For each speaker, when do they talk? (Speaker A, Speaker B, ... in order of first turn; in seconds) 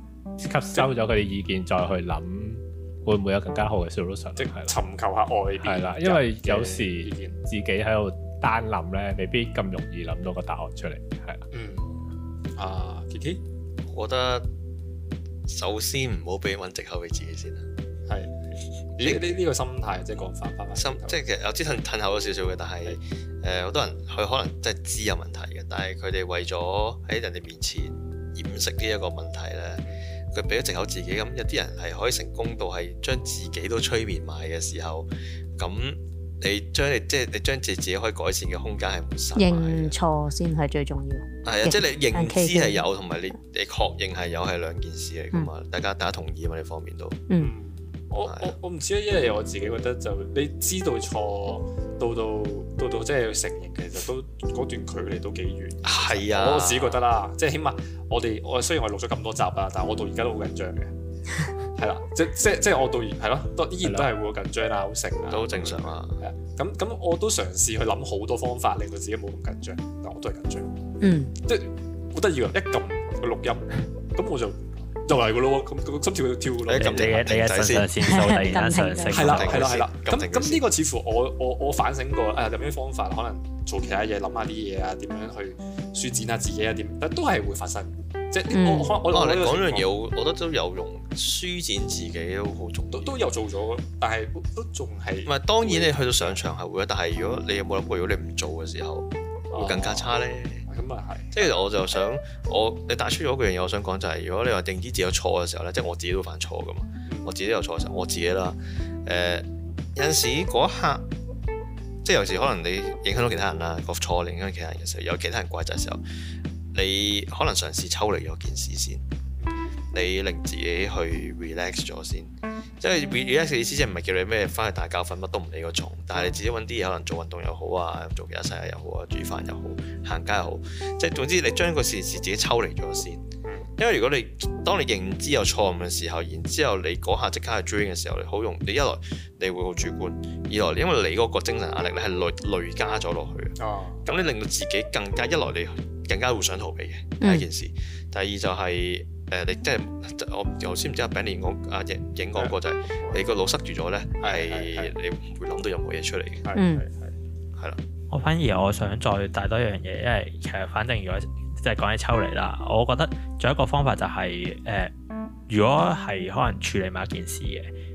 Speaker A: 0.4-4.8, 5.7-11.4
Speaker B: 4.4-7.4, 11.5-11.9, 12.6-13.4, 18.1-21.2, 47.4-60.9, 61.8-70.7, 71.4-77.0, 79.1-89.9, 92.9-96.5, 99.5-101.5, 119.4-119.7, 143.6-144.0, 152.3-153.2, 154.2-154.9, 156.4-157.2
Speaker C: 13.9-14.5, 15.5-17.7, 19.0-19.3, 20.8-40.0, 41.4-47.2, 48.2-48.5, 55.8-57.0, 65.3-66.2, 76.7-77.9, 79.2-80.7, 89.1-93.1, 95.2-100.7, 101.3-111.1, 112.0-116.0, 116.7-119.0, 119.9-133.2, 133.8-156.5
Speaker D: 39.4-42.9, 71.0-71.3, 78.0-79.3, 88.5-89.0, 147.2-147.5, 156.6-156.8
Speaker E: 76.8-79.7, 158.1-164.9, 165.5-167.7